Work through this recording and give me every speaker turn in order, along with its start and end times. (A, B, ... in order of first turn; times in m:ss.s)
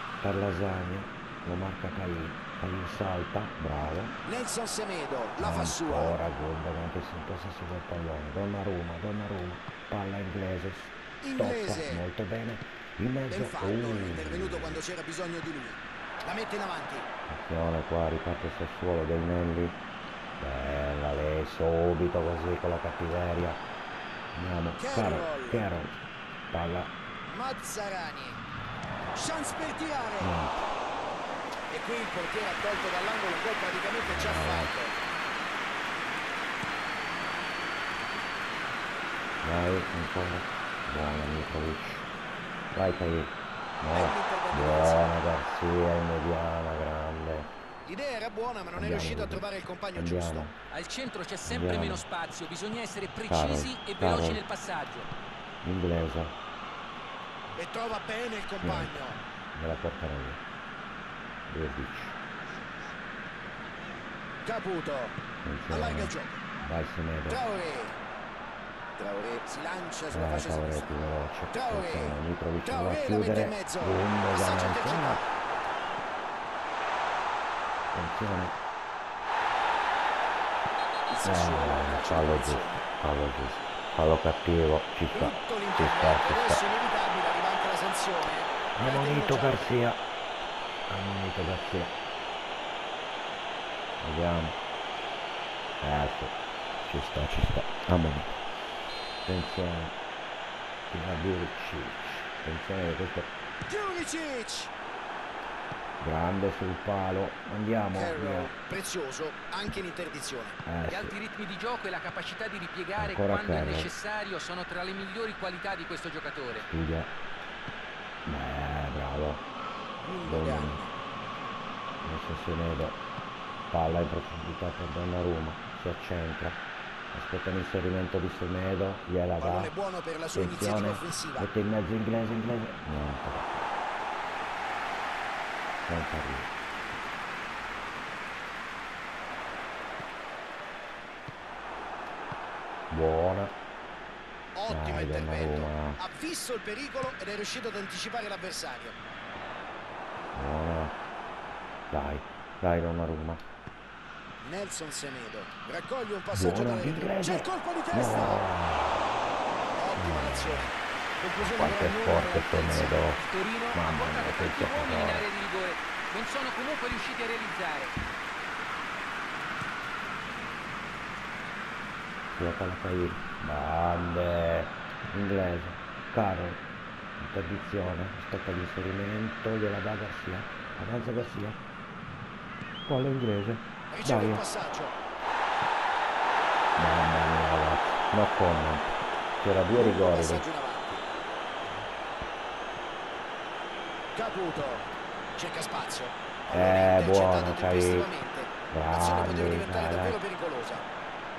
0:00.2-0:04.2 A
0:04.2-0:06.2 B
0:05.4-0:14.8 A
0:11.2-0:12.0 B
0:13.3-0:17.1 B
0:17.2-0:19.8 A
0:20.4-0:23.6 A
0:24.3-0:26.9 A
0:24.8-0:25.6 B
0:27.3-0:28.4 B
0:29.1-0:30.3 B
0:30.2-0:30.7 A
0:31.7-0:35.0 B
0:34.0-0:34.7 A
0:39.4-0:42.1 A
0:42.7-0:47.5 A
0:43.9-0:45.2 B
0:47.8-0:50.4 B
0:48.7-0:50.6 A
0:50.7-0:55.1 C
0:51.4-0:52.0 A
0:53.3-0:54.4 A
0:55.6-0:56.3 A
0:57.6-0:59.2 B
0:58.6-0:59.0 A
0:59.5-1:00.4 A
1:01.5-1:02.2 A
1:04.4-1:05.2 B
1:05.4-1:07.4 A
1:05.7-1:06.4 B
1:07.2-1:08.0 B
1:09.0-1:11.0 B
1:10.1-1:15.2 A
1:11.5-1:15.4 B
1:17.9-1:18.6 A
1:21.1-1:22.8 B
1:21.2-1:26.6 A
1:25.1-1:29.8 B
1:28.7-1:30.0 A
1:30.9-1:32.0 A
1:34.0-1:34.6 A
1:35.8-1:38.4 A
1:39.2-1:40.0 A
1:40.9-1:43.3 A
1:43.7-1:44.7 B
1:46.0-1:48.5 A
1:47.9-1:50.6 B
1:50.6-1:51.2 A
1:50.9-1:56.6 C
1:53.0-1:53.9 A
1:56.5-1:57.1 A
1:58.2-1:59.4 A
2:00.0-2:00.9 B
2:00.2-2:00.8 A
2:02.0-2:03.0 A
2:03.7-2:06.6 A
2:07.1-2:09.7 A
2:09.4-2:11.5 B
2:10.3-2:13.6 A
2:15.9-2:16.5 A
2:22.9-2:23.6 A
2:24.5-2:29.0 B
2:24.7-2:26.0 A
2:30.3-2:31.0 A
2:31.9-2:33.4 A
2:34.4-2:38.4 B
2:36.3-2:39.1 A
2:39.7-2:42.9 B
2:40.0-2:40.7 A
2:41.4-2:43.2 A
2:42.9-2:47.9 C
2:43.7-2:45.3 A
2:52.4-2:56.7 A
2:57.2-3:01.6 A
3:02.8-3:04.4 A
3:03.9-3:05.0 B
3:06.8-3:10.4 A
3:09.7-3:11.1 B
3:14.1-3:20.9 B
3:16.5-3:18.1 A
3:18.7-3:20.2 A